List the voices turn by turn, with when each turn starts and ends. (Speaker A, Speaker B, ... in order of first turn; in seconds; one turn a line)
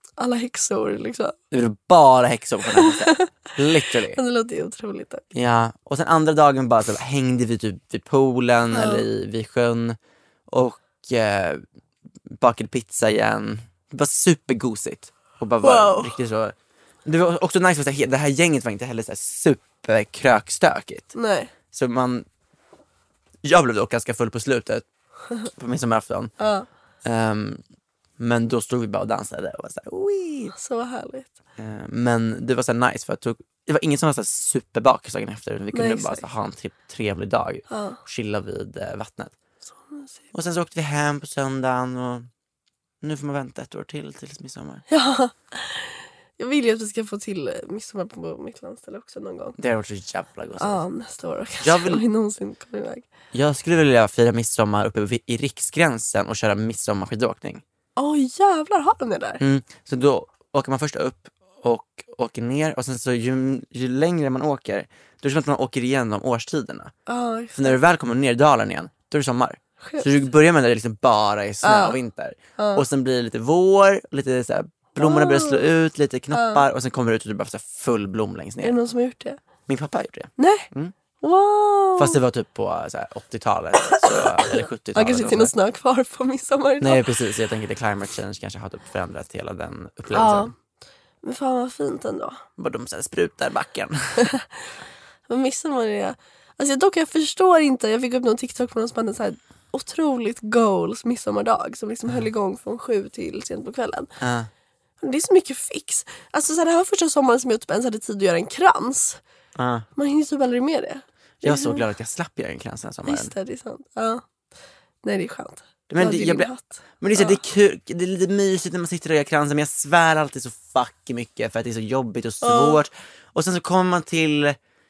Speaker A: 0.2-1.3
Speaker B: 1.5-4.2
Speaker A: 2.7-3.3
Speaker A: 4.1-5.2
Speaker B: 5.3-10.0
Speaker A: 8.7-9.0
Speaker B: 10.5-11.6
Speaker B: 12.4-16.5
Speaker A: 15.6-16.1
Speaker B: 17.0-21.1
Speaker A: 21.1-21.5
Speaker B: 21.7-22.2
Speaker B: 23.4-24.8
Speaker B: 25.4-26.3
Speaker A: 26.4-26.7
Speaker B: 27.0-27.6
Speaker B: 28.2-30.5
Speaker A: 30.5-31.3
Speaker B: 31.6-39.3
Speaker A: 35.7-36.2
Speaker A: 37.7-38.0
Speaker A: 39.7-40.2
Speaker B: 40.3-42.3
Speaker B: 43.0-44.8
Speaker A: 44.9-49.6
Speaker B: 49.6-50.8
Speaker A: 50.6-53.0
Speaker B: 51.6-52.0
Speaker B: 53.3-57.6
Speaker A: 58.0-59.4
Speaker B: 59.4-66.9
Speaker A: 67.1-67.8
Speaker B: 67.5-78.8
Speaker A: 69.8-70.1
Speaker A: 71.6-72.0
Speaker A: 72.6-72.8
Speaker A: 75.0-75.7
Speaker A: 76.3-76.6
Speaker A: 78.6-79.4
Speaker B: 79.7-80.9
Speaker A: 80.4-80.7
Speaker A: 81.2-82.2
Speaker B: 82.0-85.5
Speaker A: 84.0-87.0
Speaker B: 86.8-90.5
Speaker A: 90.1-90.5
Speaker A: 91.2-92.4
Speaker B: 92.6-94.3
Speaker A: 94.2-94.4
Speaker A: 95.3-104.1
Speaker B: 104.2-104.5
Speaker A: 105.0-109.2
Speaker B: 109.5-109.9
Speaker A: 110.0-111.8
Speaker B: 111.4-113.3
Speaker A: 113.0-114.2
Speaker A: 115.0-117.4
Speaker B: 115.9-124.5
Speaker A: 122.4-122.8